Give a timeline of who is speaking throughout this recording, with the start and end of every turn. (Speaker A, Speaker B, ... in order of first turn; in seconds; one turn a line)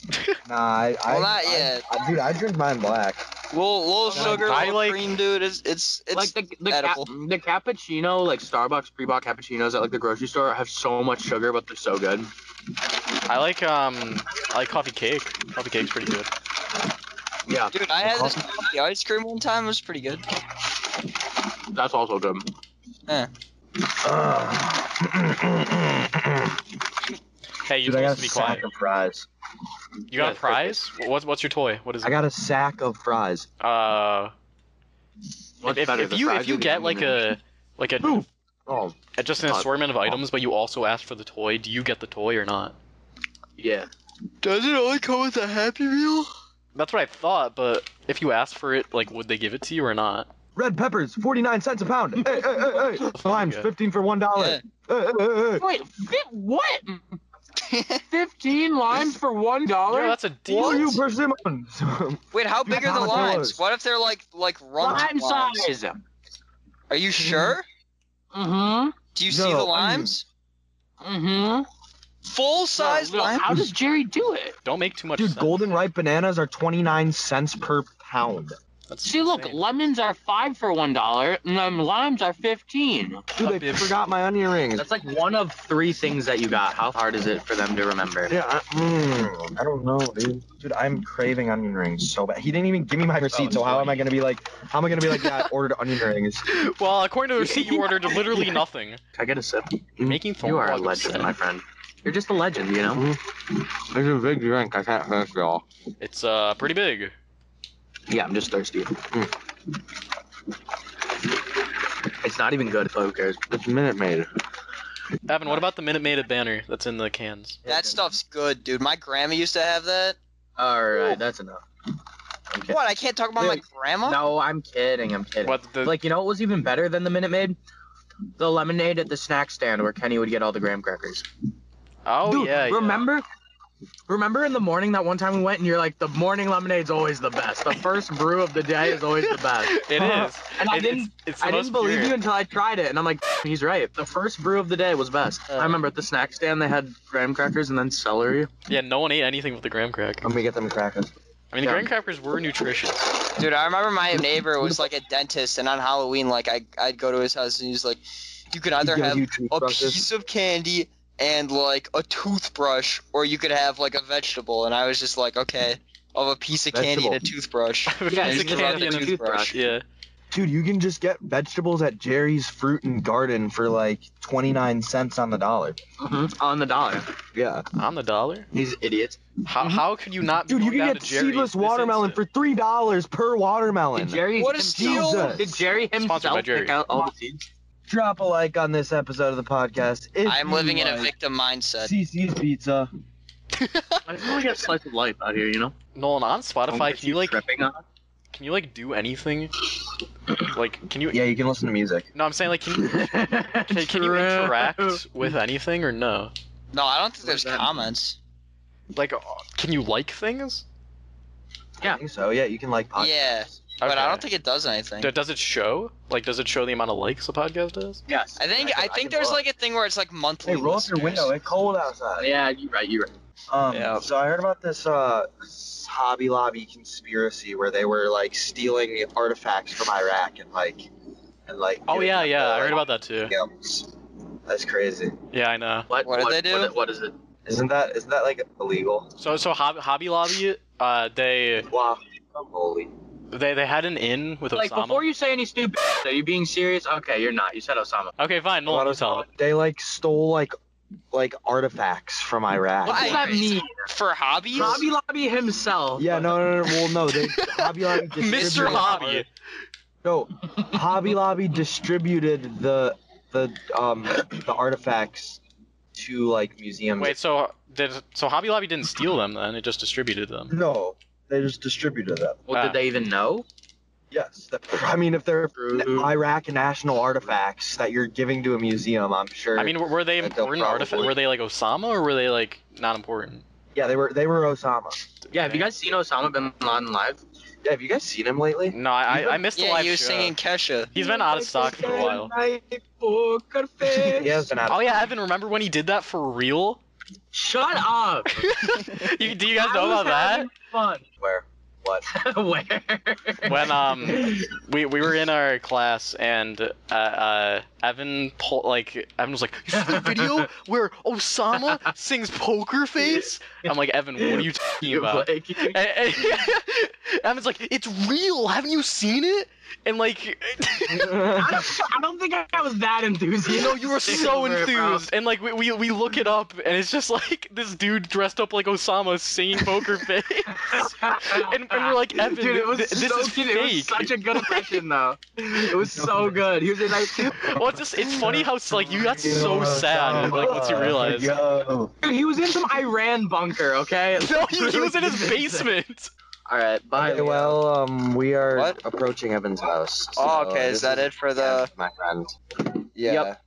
Speaker A: 0.4-3.3
Speaker B: 1.1-1.9
Speaker B: 3.5-7.1
Speaker C: 4.1-4.6
Speaker D: 4.1-5.1
Speaker C: 6.1-12.3
Speaker D: 13.2-16.3
Speaker C: 17.5-17.7
Speaker B: 17.7-20.2
Speaker A: 18.0-18.4
Speaker C: 21.7-22.4
Speaker A: 23.8-26.6
Speaker D: 27.6-28.6
Speaker A: 27.8-29.3
Speaker D: 30.1-32.2
Speaker C: 30.1-30.5
Speaker A: 30.2-30.8
Speaker A: 32.0-33.5
Speaker D: 33.6-34.3
Speaker C: 35.6-37.3
Speaker D: 35.6-38.2
Speaker A: 38.7-39.0
Speaker D: 39.1-42.8
Speaker C: 39.4-40.2
Speaker C: 43.6-43.9
Speaker A: 44.4-46.3
Speaker D: 46.7-50.3
Speaker A: 50.5-55.6
Speaker D: 53.1-53.7
Speaker B: 54.3-54.6
Speaker C: 55.5-57.2
Speaker B: 57.6-58.0
Speaker C: 58.1-60.9
Speaker D: 59.9-61.0
Speaker A: 60.5-63.6
Speaker B: 62.3-65.7
Speaker C: 64.8-66.0
Speaker B: 66.9-67.6
Speaker C: 68.3-69.0
Speaker B: 69.1-70.2
Speaker A: 69.3-70.2
Speaker C: 71.0-71.7
Speaker B: 72.3-73.5
Speaker C: 72.8-74.5
Speaker D: 74.6-75.7
Speaker A: 75.2-78.6
Speaker D: 78.9-79.6
Speaker C: 79.0-83.7
Speaker A: 83.4-84.9
Speaker D: 83.4-83.8
Speaker C: 84.8-88.3
Speaker A: 88.3-96.5
Speaker C: 93.3-94.0
Speaker D: 96.5-99.0
Speaker C: 97.4-98.6
Speaker C: 99.1-99.8
Speaker D: 100.0-101.3
Speaker C: 100.4-103.0
Speaker A: 102.9-105.6
Speaker D: 106.0-107.1
Speaker C: 108.1-109.0
Speaker C: 112.2-113.4
Speaker A: 113.5-114.3
Speaker D: 115.3-117.6
Speaker C: 117.6-118.0
Speaker B: 117.6-120.2
Speaker C: 120.6-121.6
Speaker C: 122.5-122.8
Speaker B: 122.7-124.2
Speaker C: 123.4-127.6
Speaker D: 125.4-126.0
Speaker C: 128.4-131.2
Speaker D: 132.0-133.1
Speaker C: 132.2-133.2
Speaker C: 134.1-148.5
Speaker D: 139.2-142.2
Speaker A: 140.0-140.3
Speaker D: 148.7-150.3
Speaker A: 150.2-151.1
Speaker D: 151.5-153.1
Speaker C: 151.6-151.9
Speaker B: 153.3-169.6
Speaker A: 158.8-160.0
Speaker A: 166.7-167.2
Speaker D: 167.9-169.8
Speaker C: 168.1-169.6
Speaker A: 170.3-175.8
Speaker C: 176.0-177.1
Speaker A: 177.3-177.7
Speaker D: 177.8-178.5
Speaker C: 178.5-179.8
Speaker D: 179.4-182.2
Speaker A: 180.4-185.6
Speaker C: 183.9-187.4
Speaker B: 184.3-185.5
Speaker D: 186.0-186.8
Speaker A: 187.9-191.1
Speaker B: 190.2-191.9
Speaker A: 191.8-192.9
Speaker D: 193.6-194.0
Speaker C: 194.1-195.7
Speaker D: 195.9-197.4
Speaker C: 196.7-197.8
Speaker D: 198.3-199.7
Speaker D: 200.3-201.2
Speaker A: 201.1-202.1
Speaker D: 202.1-206.3
Speaker C: 202.7-205.3
Speaker B: 206.7-208.2
Speaker C: 207.2-207.7
Speaker D: 208.9-210.6
Speaker A: 211.8-213.6
Speaker B: 213.0-215.1
Speaker D: 213.8-214.2
Speaker D: 215.0-218.0
Speaker C: 218.1-219.4
Speaker B: 218.4-221.3
Speaker A: 220.4-222.3
Speaker C: 222.2-223.1
Speaker A: 223.5-230.9
Speaker B: 223.7-224.0
Speaker A: 231.4-233.9
Speaker D: 231.9-233.3
Speaker A: 234.4-235.2
Speaker D: 235.3-235.9
Speaker C: 235.9-237.2
Speaker B: 236.0-236.7
Speaker A: 237.4-239.1
Speaker D: 239.2-241.7
Speaker A: 241.7-242.9
Speaker D: 243.3-245.1
Speaker C: 244.5-248.1
Speaker D: 248.2-249.3
Speaker A: 248.7-250.5
Speaker A: 251.1-253.3
Speaker C: 252.8-253.8
Speaker B: 252.8-254.8
Speaker C: 254.5-256.4
Speaker A: 256.0-259.2
Speaker D: 257.1-259.3
Speaker A: 260.0-265.4
Speaker A: 265.9-267.1
Speaker D: 266.9-270.5
Speaker A: 270.5-272.5
Speaker C: 272.5-273.4
Speaker D: 272.5-272.8
Speaker A: 274.1-281.2
Speaker C: 275.6-276.1
Speaker D: 279.6-283.4
Speaker A: 283.7-285.0
Speaker D: 285.3-285.7
Speaker C: 285.3-287.2
Speaker A: 287.6-288.8
Speaker D: 288.7-290.4
Speaker C: 289.1-289.5
Speaker B: 289.6-290.9
Speaker D: 290.9-292.3
Speaker A: 290.9-292.8
Speaker C: 292.9-294.5
Speaker A: 294.1-295.0
Speaker D: 294.7-296.8
Speaker C: 297.3-298.5
Speaker D: 298.3-300.5
Speaker C: 299.3-301.0
Speaker A: 301.2-302.1
Speaker C: 302.1-304.4
Speaker D: 303.4-321.5
Speaker C: 309.7-310.5
Speaker C: 311.5-311.8
Speaker C: 313.0-313.3
Speaker C: 314.2-316.4
Speaker A: 320.9-321.6
Speaker C: 321.3-325.1
Speaker D: 323.4-334.8
Speaker C: 330.6-337.6
Speaker A: 335.9-336.4
Speaker D: 337.1-341.3
Speaker A: 338.1-341.9
Speaker C: 340.1-340.6
Speaker C: 342.0-345.7
Speaker D: 344.2-346.1
Speaker C: 346.5-347.6
Speaker A: 347.0-352.3
Speaker B: 350.1-351.7
Speaker A: 352.9-353.4
Speaker C: 353.0-353.3